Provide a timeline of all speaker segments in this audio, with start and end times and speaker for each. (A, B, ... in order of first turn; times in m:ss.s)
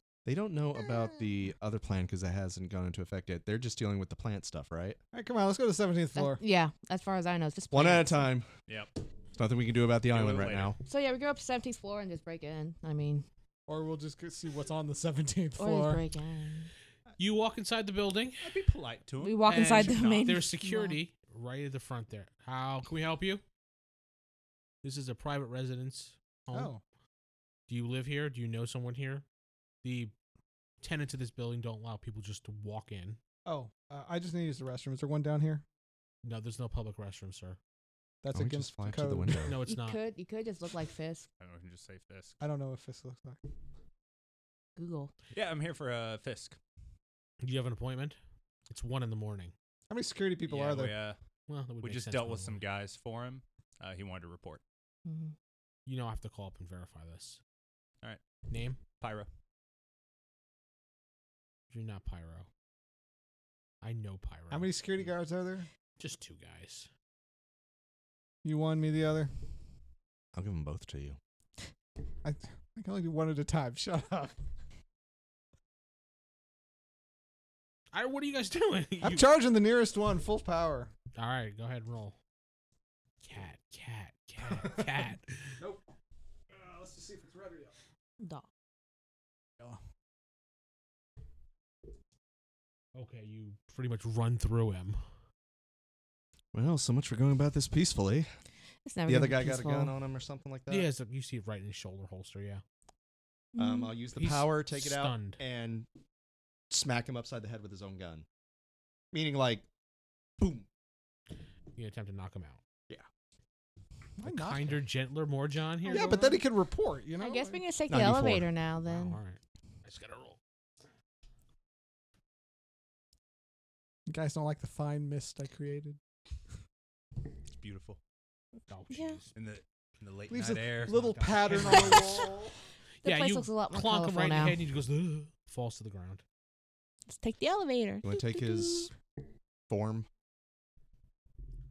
0:00.2-0:05.0 A
0:05.1-0:06.4 B
0:06.2-0:08.2 C
0:07.7-0:08.5 A
0:08.7-0:08.9 D
0:09.4-0:10.8 A
0:10.1-0:10.7 D
0:10.9-0:13.2 C
0:13.7-0:16.0 B
0:15.6-0:16.7 C
0:17.2-0:18.5 E
0:18.4-0:20.3 D
0:19.2-0:21.0 C
0:19.5-0:23.4 E
0:24.8-0:26.7 E
0:26.5-0:26.8 B
0:27.7-0:29.2 E
0:29.8-0:30.1 E
0:30.8-0:33.2 E
0:33.5-0:35.6 B
0:36.2-0:37.6 E
0:38.2-0:39.5 B
0:38.3-0:39.6 A
0:39.5-0:40.0 E
0:39.6-0:41.3 C
0:41.4-0:42.4 D
0:42.4-0:43.4 B
0:44.8-0:45.1 C
0:45.3-0:46.6 D
0:47.4-0:48.2 E
0:48.7-0:49.5 E
0:49.9-0:51.0 B
0:50.5-0:51.2 D
0:51.5-0:52.6 E
0:51.8-0:54.6 D
0:55.1-0:55.3 C
0:55.9-0:57.4 E
0:58.5-0:58.8 E
0:59.0-0:59.3 D
1:01.7-1:02.5 E
1:03.8-1:04.7 E
1:04.5-1:05.7 B
1:06.0-1:06.9 E
1:08.4-1:09.3 B
1:10.3-1:11.2 A
1:12.2-1:14.3 B
1:17.9-1:19.3 E
1:19.0-1:20.9 B
1:21.2-1:22.2 E
1:23.2-1:25.6 E
1:26.5-1:27.7 B
1:28.2-1:28.5 C
1:33.0-1:35.0 E
1:36.5-1:38.3 A
1:38.9-1:39.9 C
1:39.1-1:40.9 A
1:40.7-1:42.6 E
1:43.5-1:43.9 C
1:43.6-1:45.9 A
1:44.2-1:45.4 E
1:46.7-1:48.3 A
1:49.1-1:49.7 A
1:50.4-1:50.7 A
1:51.8-1:52.6 E
1:54.2-1:54.8 B
1:54.2-1:56.2 E
1:55.8-1:57.6 B
1:55.9-1:56.4 C
1:57.2-1:59.2 C
1:57.9-1:58.5 A
1:58.8-2:00.4 E
2:04.1-2:06.0 B
2:07.6-2:08.0 D
2:08.7-2:09.3 E
2:08.9-2:09.2 C
2:09.4-2:12.0 D
2:10.3-2:12.6 B
2:10.9-2:12.2 E
2:13.0-2:14.6 C
2:13.0-2:16.2 E
2:17.1-2:18.9 C
2:18.0-2:18.9 A
2:19.7-2:20.1 A